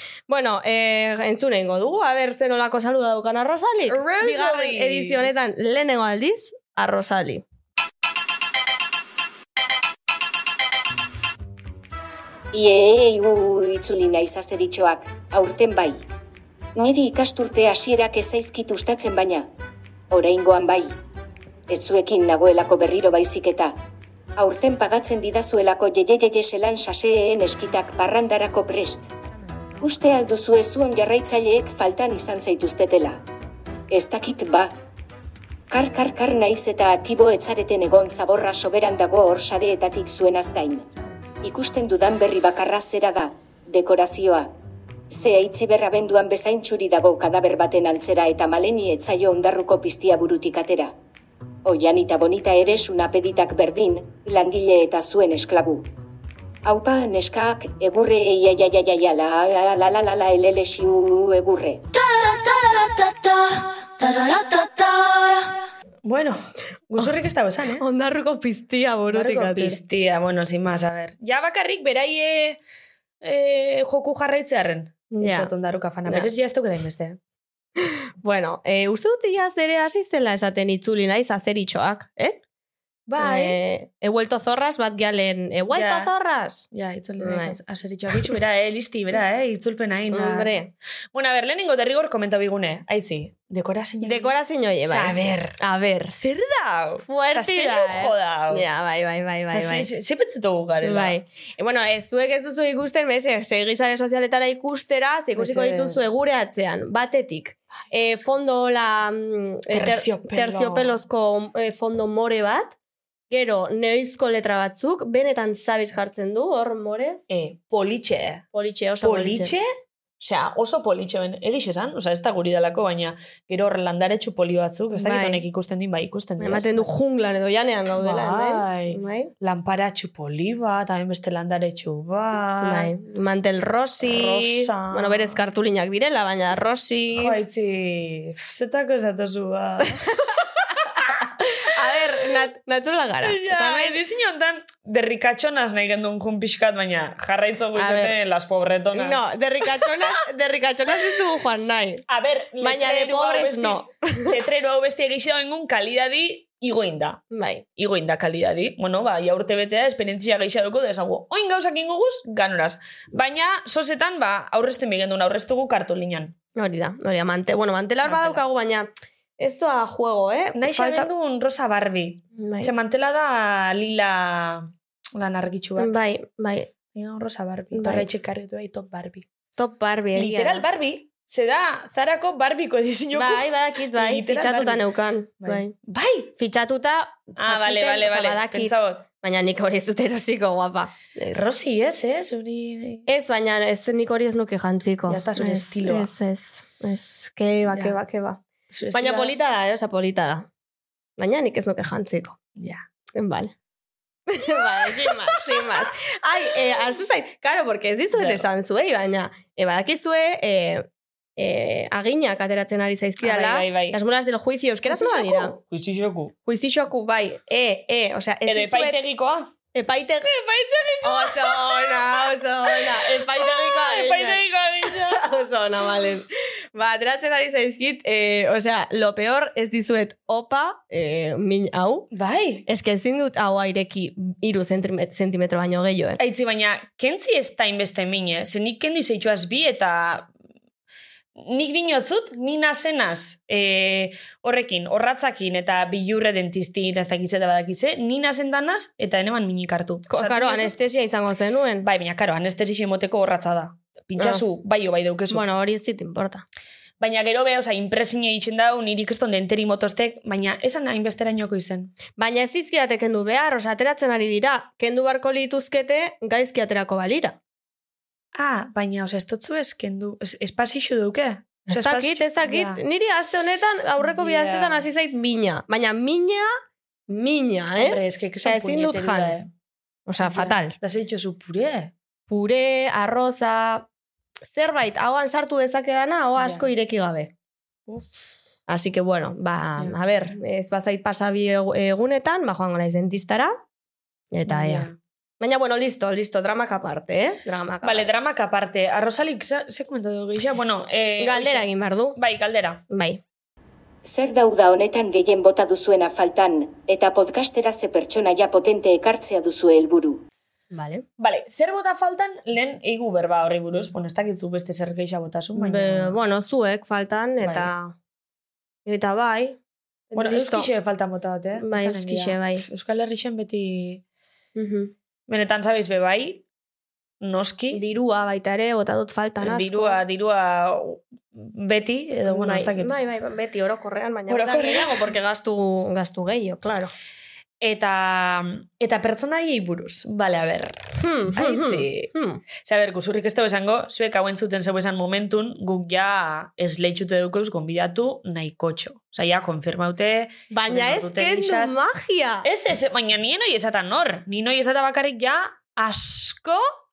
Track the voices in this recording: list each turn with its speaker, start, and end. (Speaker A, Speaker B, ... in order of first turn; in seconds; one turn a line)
Speaker A: 0.3-7.4
Speaker B: 3.9-5.2
Speaker C: 12.5-16.1
Speaker C: 16.7-19.5
Speaker C: 20.1-20.9
Speaker C: 21.7-23.7
Speaker C: 24.4-29.1
Speaker C: 29.8-33.2
Speaker C: 33.9-34.7
Speaker C: 35.7-40.9
Speaker C: 41.4-44.5
Speaker C: 45.1-50.9
Speaker C: 51.6-55.9
Speaker C: 56.6-61.8
Speaker B: 61.9-67.8
Speaker A: 67.8-69.8
Speaker B: 69.1-72.6
Speaker B: 73.2-77.2
Speaker A: 75.1-75.5
Speaker A: 77.8-82.4
Speaker B: 83.1-83.6
Speaker A: 83.2-86.7
Speaker B: 85.7-86.1
Speaker B: 86.7-90.5
Speaker A: 87.2-87.6
Speaker A: 90.1-90.7
Speaker B: 91.1-94.3
Speaker A: 94.0-96.2
Speaker B: 94.9-95.6
Speaker B: 96.1-98.6
Speaker A: 97.0-99.9
Speaker B: 99.5-101.2
Speaker A: 100.8-112.7
Speaker B: 105.3-106.1
Speaker B: 109.7-110.9
Speaker A: 113.3-117.2
Speaker B: 117.3-118.4
Speaker A: 118.5-119.5
Speaker B: 119.0-119.7
Speaker B: 120.2-126.9
Speaker A: 124.9-125.4
Speaker A: 126.4-129.3
Speaker B: 128.0-132.9
Speaker A: 132.6-137.4
Speaker B: 134.0-135.4
Speaker B: 137.2-141.3
Speaker A: 140.1-140.4
Speaker A: 141.2-144.0
Speaker B: 143.2-149.2
Speaker A: 147.7-148.1
Speaker A: 148.9-152.0
Speaker B: 152.1-157.2
Speaker A: 152.6-154.3
Speaker A: 157.3-157.6
Speaker B: 157.8-166.3
Speaker A: 166.6-171.1
Speaker B: 168.0-168.4
Speaker B: 170.6-175.9
Speaker A: 172.3-172.7
Speaker A: 175.8-176.7
Speaker B: 176.9-179.2
Speaker A: 177.7-178.1
Speaker A: 179.6-180.6
Speaker B: 180.1-184.8
Speaker A: 183.1-185.7
Speaker B: 185.4-186.3
Speaker A: 186.4-191.4
Speaker B: 187.3-189.1
Speaker B: 191.3-193.1
Speaker A: 193.1-198.4
Speaker B: 195.1-196.1
Speaker B: 197.7-198.0
Speaker B: 198.7-199.3
Speaker A: 198.9-200.5
Speaker A: 201.2-202.4
Speaker B: 202.6-202.8
Speaker A: 203.1-203.5
Speaker A: 204.3-210.8
Speaker B: 204.8-205.7
Speaker B: 208.1-208.4
Speaker A: 211.4-215.6
Speaker B: 213.2-214.0
Speaker B: 214.9-216.3
Speaker A: 216.4-219.0
Speaker B: 218.4-219.5
Speaker A: 219.7-220.3
Speaker B: 220.2-225.2
Speaker A: 221.0-232.1
Speaker B: 232.1-232.7
Speaker A: 232.7-236.2
Speaker B: 236.2-240.3
Speaker B: 241.3-250.7
Speaker A: 250.1-251.8
Speaker B: 251.8-255.4
Speaker A: 254.2-254.4
Speaker A: 255.3-256.4
Speaker B: 257.0-261.9
Speaker A: 262.2-267.4
Speaker B: 268.3-272.8
Speaker A: 271.7-276.5
Speaker B: 274.0-274.8
Speaker A: 277.1-279.4
Speaker B: 277.8-279.5
Speaker A: 280.1-280.8
Speaker B: 280.2-281.9
Speaker A: 282.3-283.9
Speaker A: 284.5-287.3
Speaker B: 286.4-286.7
Speaker A: 288.7-293.5
Speaker A: 294.3-294.9
Speaker B: 294.5-295.0
Speaker A: 295.4-298.1
Speaker B: 297.8-302.8
Speaker A: 301.2-302.2
Speaker A: 302.9-303.2
Speaker C: 304.0-310.2
Speaker A: 310.7-311.0
Speaker B: 311.2-316.2
Speaker A: 315.6-317.9
Speaker B: 317.4-317.7
Speaker A: 318.9-319.6
Speaker A: 320.1-320.7
Speaker B: 320.1-324.0
Speaker A: 321.6-322.6
Speaker A: 324.6-324.9
Speaker B: 325.3-326.4
Speaker B: 327.2-327.8
Speaker A: 327.7-330.0
Speaker B: 329.4-332.9
Speaker A: 332.3-336.9
Speaker B: 334.3-335.1
Speaker B: 337.6-351.8
Speaker A: 341.0-342.4
Speaker A: 350.5-352.4
Speaker B: 352.4-356.7